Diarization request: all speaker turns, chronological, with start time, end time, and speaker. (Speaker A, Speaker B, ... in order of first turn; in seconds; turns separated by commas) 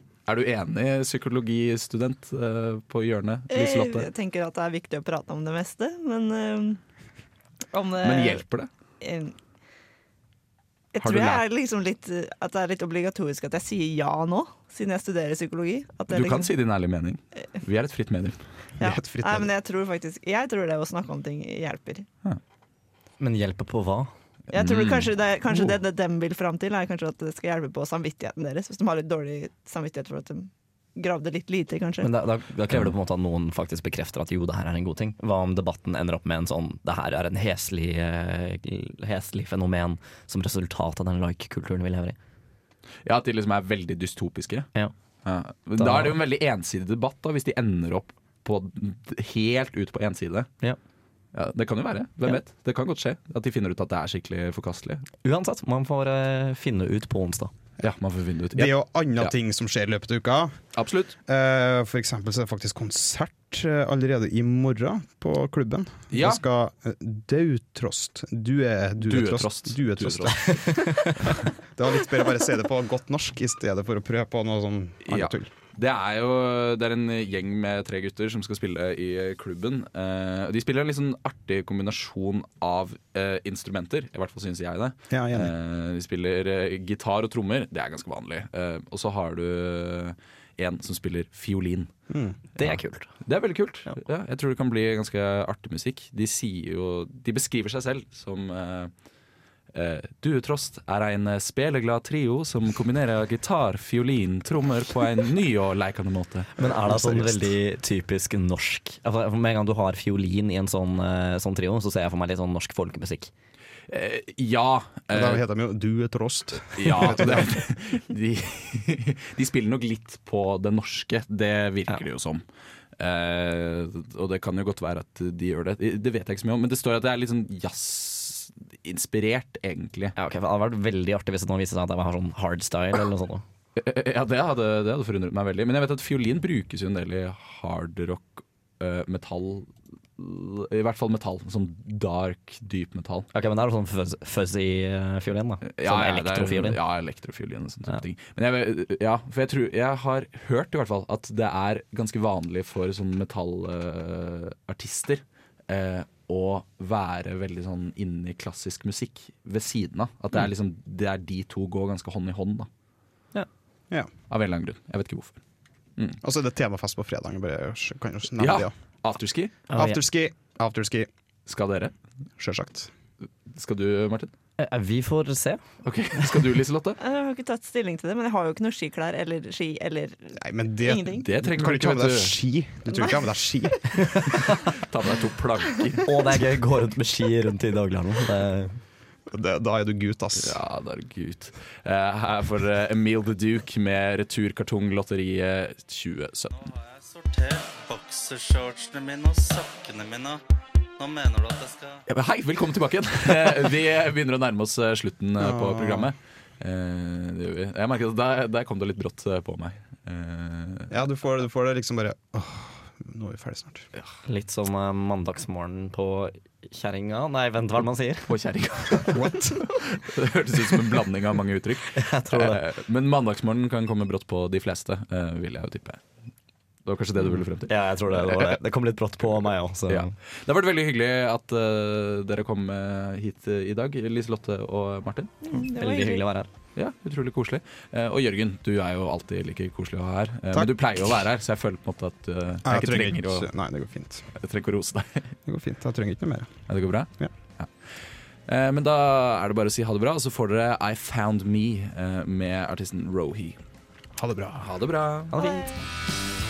Speaker A: 0.3-4.1, Speaker B: 3.5-6.8, Speaker B: 7.7-8.4, Speaker A: 8.0-8.7, Speaker B: 9.0-9.4, Speaker B: 10.9-16.5, Speaker A: 11.0-11.4, Speaker A: 16.1-18.4, Speaker B: 18.8-22.1, Speaker C: 18.8-19.5, Speaker D: 23.2-24.1, Speaker A: 24.5-25.8, Speaker B: 24.5-32.1, Speaker D: 32.0-42.2, Speaker A: 43.0-44.7, Speaker A: 45.2-50.5, Speaker D: 45.8-46.2, Speaker A: 51.3-55.1, Speaker D: 55.2-57.5, Speaker A: 57.8-59.3, Speaker C: 58.5-60.6, Speaker A: 60.8-61.2, Speaker C: 61.3-70.5, Speaker A: 66.1-66.4, Speaker A: 69.0-70.7, Speaker D: 70.7-71.1, Speaker C: 71.6-75.5, Speaker A: 75.0-91.9, Speaker C: 85.1-85.5, Speaker C: 92.1-92.4, Speaker D: 92.6-93.1, Speaker A: 93.2-98.9, Speaker A: 99.7-107.3, Speaker D: 106.6-113.3, Speaker A: 113.9-115.4, Speaker C: 115.1-117.5, Speaker A: 116.8-122.4, Speaker A: 123.0-130.1, Speaker D: 130.2-133.4, Speaker A: 133.8-143.3, Speaker D: 143.3-146.8, Speaker A: 145.7-162.7, Speaker A: 164.3-165.4, Speaker C: 166.2-168.7, Speaker A: 168.4-169.6, Speaker D: 169.7-170.0, Speaker C: 169.7-171.1, Speaker A: 171.5-171.9, Speaker C: 172.4-172.9, Speaker A: 173.5-174.3, Speaker D: 174.6-175.6, Speaker A: 175.8-177.0, Speaker B: 177.0-181.3, Speaker C: 180.3-184.4, Speaker A: 181.2-182.4, Speaker B: 182.9-183.2, Speaker A: 184.5-186.1, Speaker D: 186.1-188.8, Speaker C: 189.3-190.6, Speaker A: 190.4-196.6, Speaker E: 196.5-200.4, Speaker E: 201.0-202.0, Speaker A: 202.1-210.9, Speaker C: 205.4-206.1, Speaker C: 210.9-213.9, Speaker D: 214.3-218.3, Speaker A: 218.3-226.0, Speaker C: 219.1-219.8, Speaker D: 222.0-222.6, Speaker A: 226.8-228.6, Speaker D: 227.7-230.1, Speaker A: 229.9-235.3, Speaker B: 235.4-236.2, Speaker D: 235.6-236.5, Speaker A: 236.8-243.5, Speaker C: 242.7-244.3, Speaker A: 244.3-245.3, Speaker C: 245.5-246.5, Speaker A: 246.7-247.7, Speaker A: 248.5-253.6, Speaker C: 254.2-254.7, Speaker A: 254.6-255.3, Speaker D: 255.3-255.7, Speaker B: 255.4-255.7